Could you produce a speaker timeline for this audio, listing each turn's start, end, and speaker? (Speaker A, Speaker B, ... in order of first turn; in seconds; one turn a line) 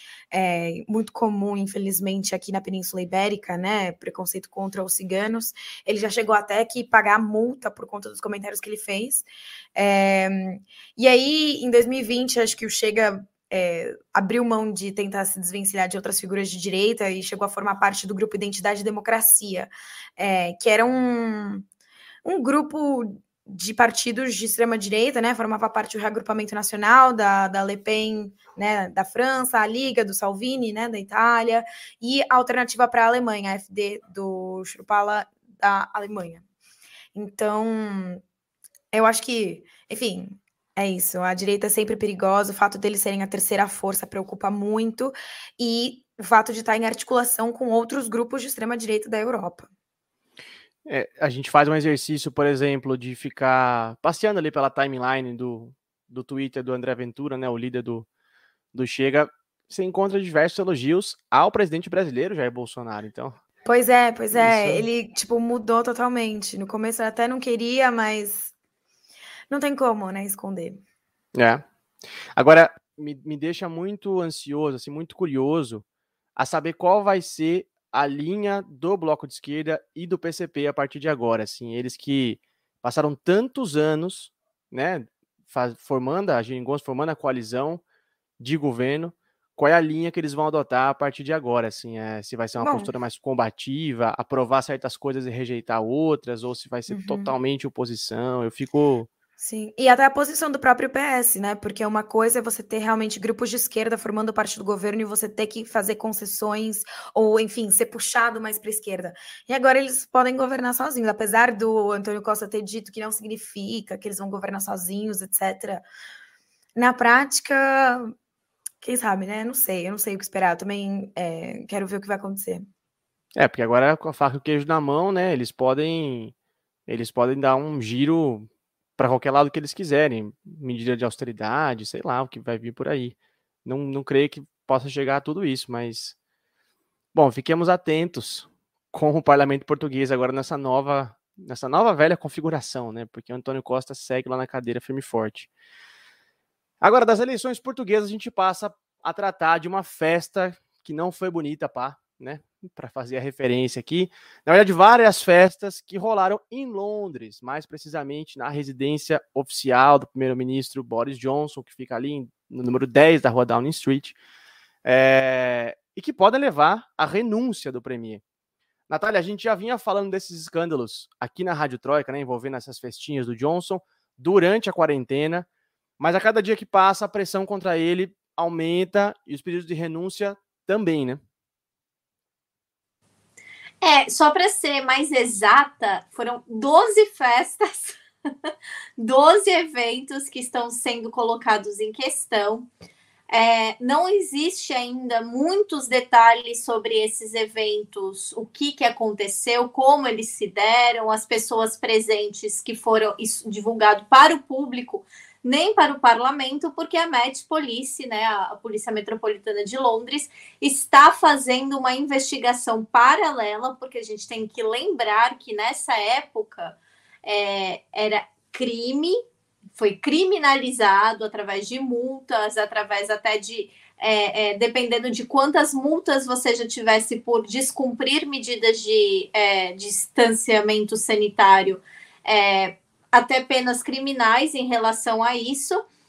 Speaker A: 0.3-21.7
Speaker A: 22.2-36.4
Speaker A: 37.1-38.2
Speaker A: 38.9-49.7
Speaker B: 50.9-58.1
Speaker B: 58.7-63.4
Speaker A: 63.6-68.5
Speaker B: 64.3-64.8
Speaker A: 69.5-70.8
Speaker B: 71.3-71.6
Speaker B: 72.4-75.8
Speaker B: 76.4-87.8
Speaker B: 88.4-99.1
Speaker A: 92.6-92.9
Speaker A: 96.9-97.3
Speaker A: 99.4-115.8
Speaker A: 116.8-118.1
Speaker A: 118.8-122.7
Speaker B: 123.4-126.3
Speaker B: 126.9-136.1
Speaker B: 137.1-145.5
Speaker B: 146.8-164.1
Speaker B: 164.8-168.2
Speaker B: 168.9-175.5
Speaker B: 176.0-181.2
Speaker C: 183.8-188.0
Speaker C: 189.0-192.7
Speaker C: 193.3-219.2
Speaker C: 219.8-235.8